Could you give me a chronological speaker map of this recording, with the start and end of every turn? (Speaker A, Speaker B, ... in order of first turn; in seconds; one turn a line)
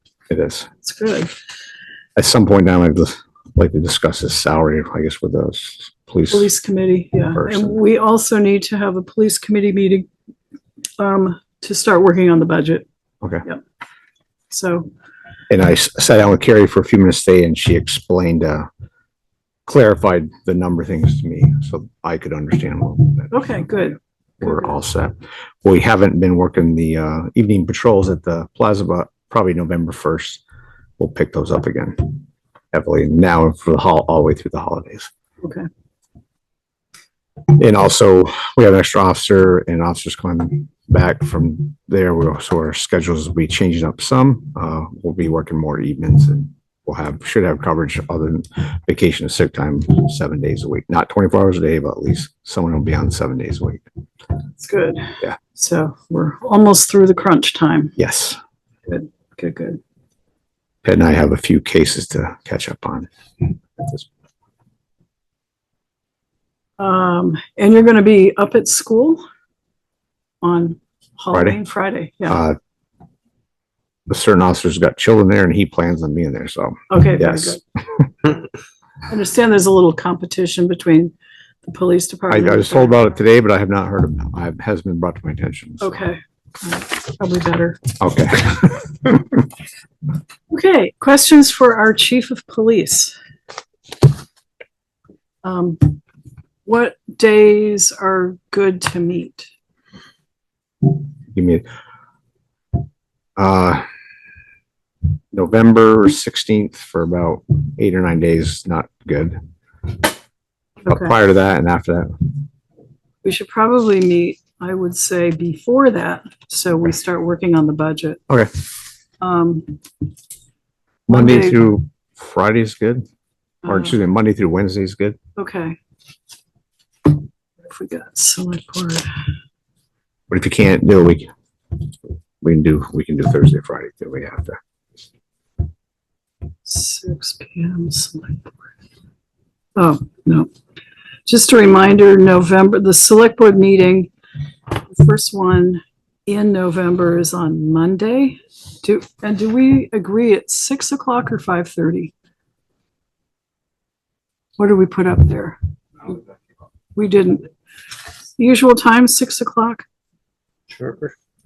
Speaker A: 0.3-0.7
Speaker B: 0.8-1.4
Speaker A: 2.2-6.5
Speaker B: 6.3-10.1
Speaker A: 7.3-7.8
Speaker B: 11.0-12.8
Speaker B: 14.5-14.9
Speaker A: 15.5-18.7
Speaker A: 19.7-23.6
Speaker B: 23.3-24.8
Speaker A: 24.4-30.4
Speaker A: 31.0-35.1
Speaker B: 35.4-35.7
Speaker A: 37.6-53.9
Speaker B: 54.6-58.0
Speaker A: 58.0-58.4
Speaker B: 58.9-59.8
Speaker A: 60.8-63.1
Speaker A: 63.8-64.1
Speaker B: 66.8-69.2
Speaker B: 70.4-72.4
Speaker A: 71.3-71.6
Speaker A: 72.3-72.6
Speaker A: 74.1-77.6
Speaker B: 76.9-77.6
Speaker B: 79.1-81.1
Speaker B: 81.6-83.0
Speaker A: 82.3-86.0
Speaker B: 85.8-87.8
Speaker A: 88.0-89.3
Speaker B: 90.5-93.2
Speaker B: 95.4-96.0
Speaker B: 96.7-99.5
Speaker A: 101.3-101.7
Speaker A: 103.4-103.8
Speaker A: 105.3-109.4
Speaker A: 110.9-112.1
Speaker B: 113.2-118.2
Speaker B: 119.2-119.8
Speaker A: 121.1-123.0
Speaker B: 121.1-121.8
Speaker A: 123.6-125.2
Speaker B: 123.7-124.0
Speaker B: 125.4-125.8
Speaker B: 127.6-129.1
Speaker A: 130.3-131.3
Speaker A: 132.4-134.6
Speaker B: 136.7-138.5
Speaker B: 139.8-140.5
Speaker B: 141.3-144.1
Speaker B: 144.8-152.1
Speaker B: 154.6-155.6
Speaker B: 156.9-157.5
Speaker B: 158.4-159.8